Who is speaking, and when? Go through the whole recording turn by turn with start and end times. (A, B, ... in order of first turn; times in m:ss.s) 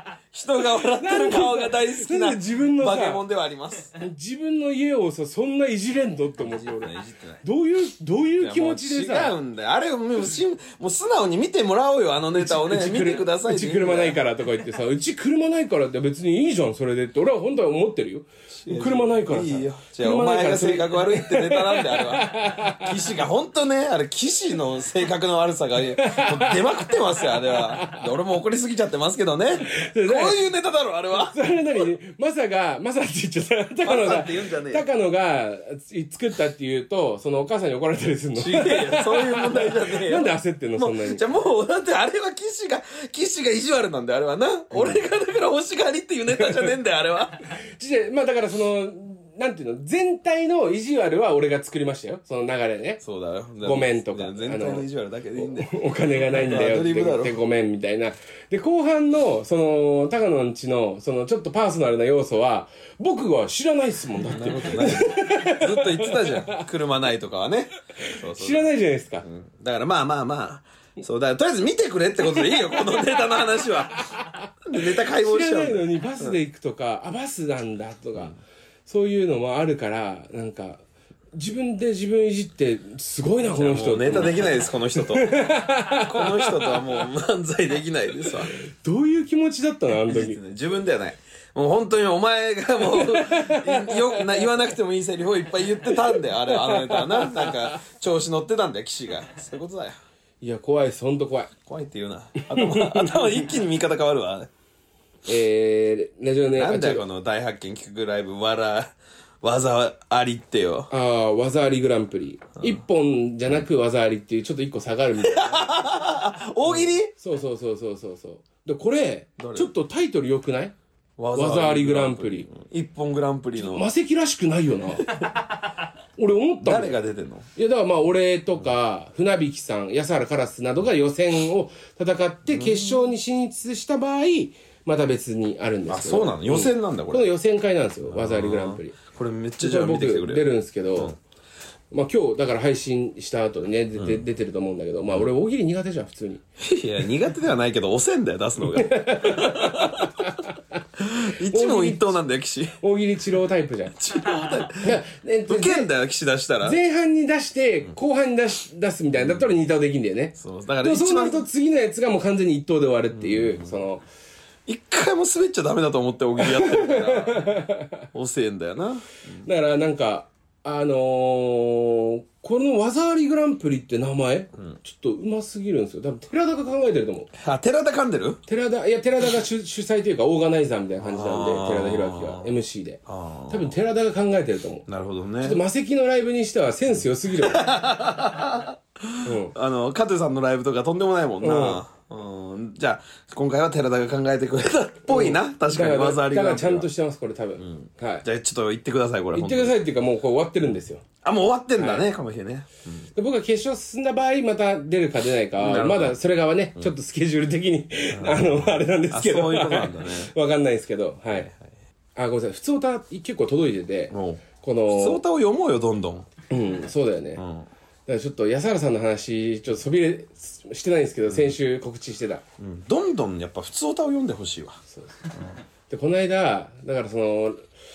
0:00.3-0:03.9 A
0:00.8-0:03.2 B
0:04.0-0:09.4 B
0:06.4-0:07.4 A
0:08.4-0:14.2 A
0:12.4-0:23.0 B
0:18.5-0:31.4 A
0:25.9-0:28.1 B
0:29.7-0:30.4 B
0:31.1-0:41.2 B
0:33.8-0:34.9 A
0:38.4-0:47.4 A
0:44.7-0:45.0 B
0:46.4-0:46.7 B
0:47.8-0:53.0 B
0:53.0-0:57.4 A
0:53.6-1:06.6 B
1:04.2-1:08.7 A
1:08.1-1:09.2 B
1:09.2-1:14.1 A
1:12.3-1:13.2 B
1:14.1-1:20.8 B
1:14.6-1:16.4 A
1:21.3-1:27.0 B
1:23.4-1:28.5 A
1:28.2-1:30.4 B
1:30.1-1:40.0 A
1:32.8-1:34.5 B
1:36.1-1:37.6 B
1:40.4-1:41.5 B
1:41.7-1:44.5 A
1:42.5-1:43.2 B
1:45.2-1:47.0 B
1:46.6-1:50.9 A
1:50.9-1:55.8 B
1:55.2-1:57.1 A
1:56.7-2:00.8 B
1:59.4-1:59.7 A
2:01.2-2:03.9 A
2:01.3-2:02.5 B
2:03.6-2:05.1 B
2:06.2-2:07.0 B
2:06.6-2:07.5 A
2:07.6-2:19.0 B
2:12.5-2:13.0 A
2:15.9-2:17.3 A
2:18.1-2:21.2 A
2:19.6-2:21.1 B
2:21.9-2:26.4 B
2:26.6-2:30.3 A
2:28.6-2:30.4 B
2:31.0-2:32.8 A
2:31.5-2:32.2 B
2:32.8-2:34.0 B
2:34.0-2:35.0 A
2:34.8-2:35.9 B
2:35.5-2:36.8 A
2:36.6-2:44.0 B
2:39.2-2:39.5 A
2:40.4-2:41.5 A
2:43.1-2:43.8 A
2:44.7-2:47.6 A
2:46.4-2:48.1 B
2:48.1-2:49.5 A
2:49.4-2:57.3 B
2:57.3-2:58.4 A
2:58.5-3:04.8 B
3:01.0-3:02.5 A
3:03.1-3:03.8 A
3:04.9-3:05.6 A
3:05.4-3:07.7 B
3:07.4-3:16.9 A
3:09.2-3:09.5 B
3:11.4-3:11.8 B
3:15.1-3:18.2 B
3:17.6-3:19.8 A
3:19.3-3:21.0 B
3:21.2-3:23.1 A
3:21.8-3:22.1 B
3:23.2-3:31.5 B
3:25.6-3:26.2 A
3:28.1-3:30.3 A
3:32.2-3:35.2 B
3:34.1-3:36.3 A
3:36.5-3:37.4 B
3:37.4-3:37.7 A
3:38.1-3:42.4 B
3:42.6-3:44.8 A
3:44.9-3:45.3 B
3:45.9-3:47.6 B